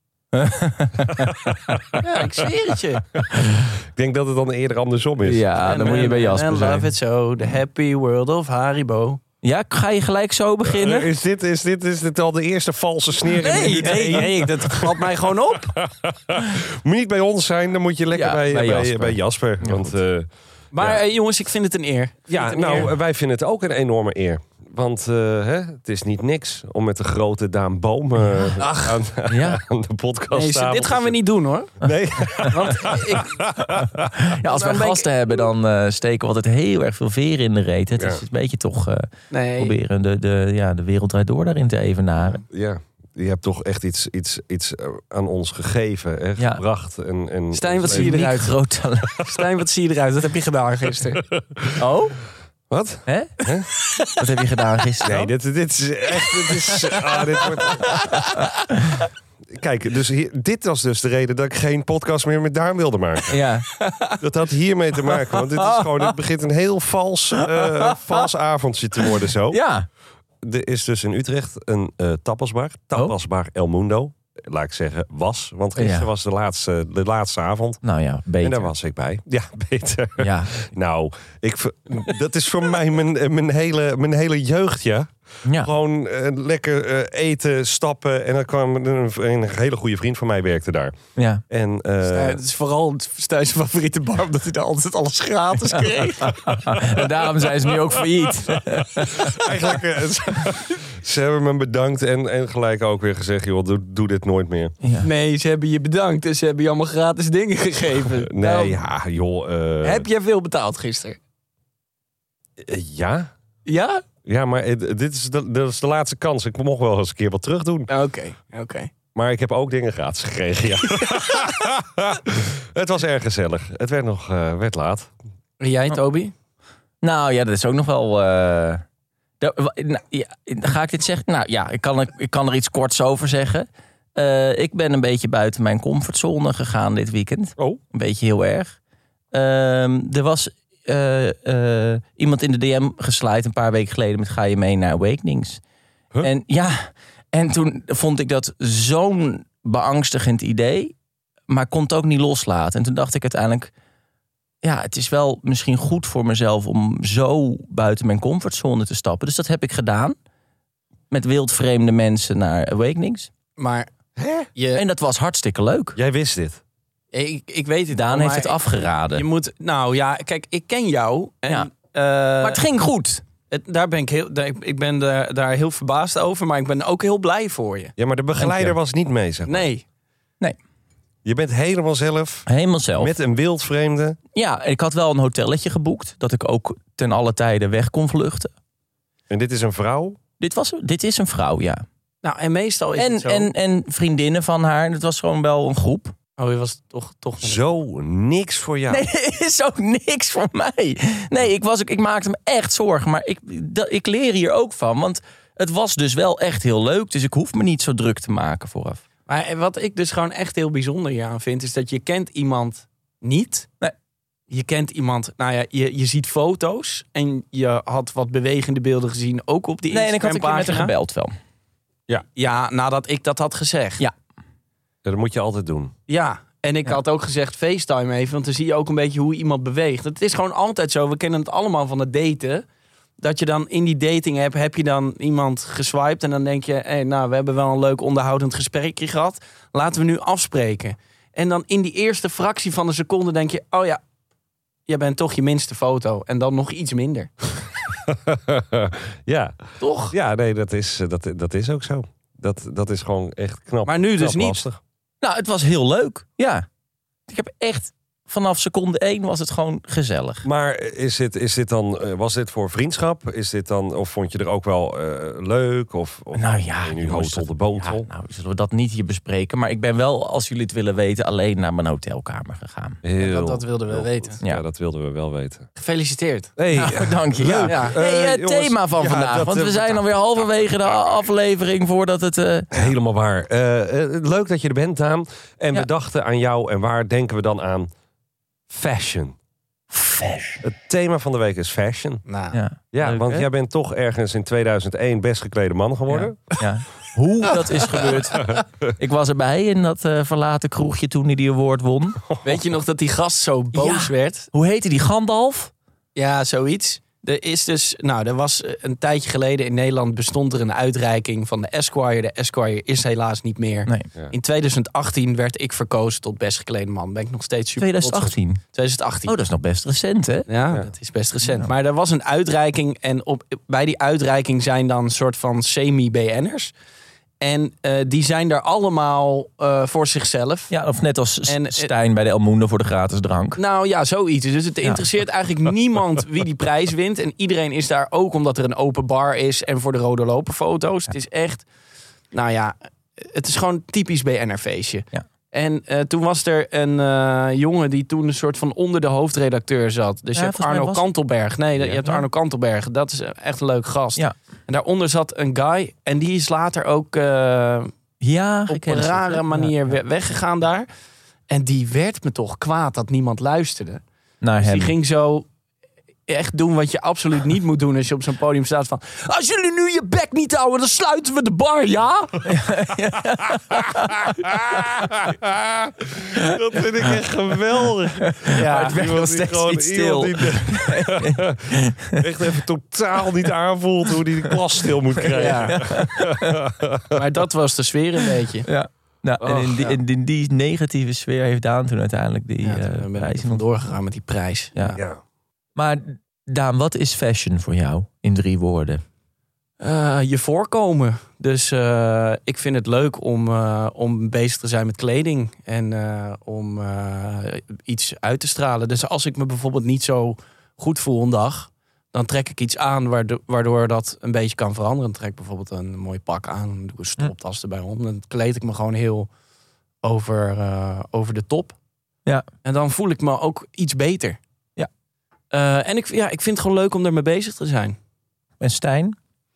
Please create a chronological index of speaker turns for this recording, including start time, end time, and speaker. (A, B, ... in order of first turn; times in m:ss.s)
0:00.3-0:01.3 A
0:01.1-0:02.0 B
0:02.0-0:03.1 C
0:03.3-0:03.6 A
0:03.9-0:05.6 B
0:05.2-0:06.9 A
0:05.6-0:09.2 C
0:09.4-0:11.1 A
0:10.7-0:15.0 B
0:13.4-0:15.7 C
0:13.4-0:14.2 A
0:15.8-0:21.0 B
0:18.1-0:20.0 A
0:20.7-0:22.9 C
0:22.3-0:31.2 B
0:28.2-0:28.6 A
0:28.6-0:28.9 C
0:29.3-0:29.6 A
0:30.3-0:31.8 C
0:31.8-0:34.1 B
0:32.3-0:33.5 C
0:34.1-0:42.4 A
0:34.4-0:35.1 C
0:38.0-0:38.2 B
0:39.3-0:39.7 C
0:42.5-0:48.2 B
0:46.4-0:46.6 A
0:47.5-0:48.6 C
0:47.8-0:49.1 A
0:49.2-0:51.2 C
0:51.4-0:51.7 B
0:51.8-0:52.2 A
0:52.7-0:53.7 B
0:53.1-0:53.4 A
0:54.1-0:55.3 A
0:55.0-0:58.1 B
0:59.5-1:03.4 B
1:03.3-1:03.7 A
1:03.8-1:04.2 C
1:04.2-1:09.6 B
1:05.6-1:06.1 A
1:07.5-1:07.9 A
1:09.0-1:09.8 A
1:10.4-1:17.8 B
1:15.8-1:16.1 A
1:17.8-1:18.7 A
1:18.4-1:30.9 B
1:20.2-1:20.6 A
1:25.4-1:25.7 A
1:31.2-1:31.4 A
1:31.5-1:32.4 B
1:32.1-1:36.9 C
1:36.2-1:39.3 A
1:39.1-1:44.7 B
1:44.8-1:45.1 A
1:45.0-1:48.8 C
1:48.3-1:50.0 B
1:49.8-1:51.2 C
1:52.6-1:53.3 B
1:53.6-1:54.0 C
1:54.2-1:57.9 B
1:57.9-1:58.9 C
1:59.1-2:05.1 B
2:05.6-2:06.3 C
2:07.0-2:08.8 A
2:09.4-2:18.7 A
2:19.3-2:25.6 A
2:26.2-2:30.9 A
2:31.5-2:33.7 A
2:34.6-2:40.2 A
2:41.1-2:43.3 A
2:43.6-2:43.9 C
2:44.2-2:44.5 B
2:44.5-2:44.8 C
2:44.7-2:46.0 A
2:46.0-2:46.6 B
2:47.1-2:52.6 C
2:47.9-2:49.2 A
2:52.4-2:53.2 A
2:53.5-2:57.9 C
2:58.0-2:59.7 B
2:58.4-2:58.7 A
2:59.5-2:59.8 C
3:01.2-3:02.5 B
3:02.5-3:03.1 A
3:03.0-3:04.2 B
3:04.3-3:08.5 A
3:09.3-3:10.2 B
3:10.4-3:11.8 A
3:12.2-3:13.5 C
3:13.0-3:16.1 A
3:16.4-3:17.6 C
3:17.4-3:19.0 B
3:18.9-3:29.0 A
3:29.3-3:33.7 C
3:34.5-3:40.9 C
3:39.9-3:41.3 A
3:42.1-3:44.0 C
3:45.0-3:45.9 B
3:46.1-3:52.6 C
3:53.2-4:04.0 C
4:04.9-4:07.3 C
4:08.0-4:14.8 B
4:09.8-4:10.1 C
4:13.8-4:14.6 C
4:15.2-4:16.6 A
4:17.3-4:20.4 A
4:20.4-4:28.1 B
4:26.3-4:33.0 A
4:33.0-4:35.7 B
4:33.2-4:34.4 C
4:35.8-4:36.5 C
4:36.6-4:41.2 B
4:36.7-4:42.9 A
4:37.7-4:37.9 C
4:42.7-4:47.9 B
4:48.7-4:49.3 B
4:49.9-4:50.6 A
4:50.6-4:52.2 B
4:52.3-4:52.6 C
4:52.5-4:53.5 A
4:52.9-4:56.5 B
4:56.1-5:02.2 A
5:02.4-5:04.5 C
5:03.7-5:05.7 A
5:06.1-5:19.3 C
5:17.8-5:18.6 A
5:19.2-5:20.5 A
5:20.5-5:26.7 C
5:21.4-5:21.7 A
5:27.4-5:30.7 C
5:30.7-5:33.6 A
5:31.4-5:31.9 C
5:33.6-5:41.6 C
5:42.3-5:57.9 C
5:50.3-5:51.1 A
5:51.9-5:52.2 A
5:58.2-5:59.7 A
5:58.7-6:00.8 C
6:01.5-6:04.0 C
6:04.4-6:04.9 A
6:04.6-6:05.4 C
6:06.3-6:12.5 C
6:12.4-6:14.3 A
6:14.5-6:21.6 B
6:18.3-6:22.2 A
6:18.5-6:19.0 C
6:22.1-6:27.1 B
6:25.4-6:26.1 C
6:25.4-6:26.6 A
6:27.1-6:28.7 C
6:28.6-6:33.6 A
6:29.4-6:29.9 B
6:32.6-6:35.0 C
6:34.9-6:35.2 B
6:35.8-6:39.0 A
6:39.8-6:59.3 C
7:00.0-7:01.8 C
7:02.6-7:04.4 C
7:05.5-7:08.0 C
7:08.6-7:09.2 A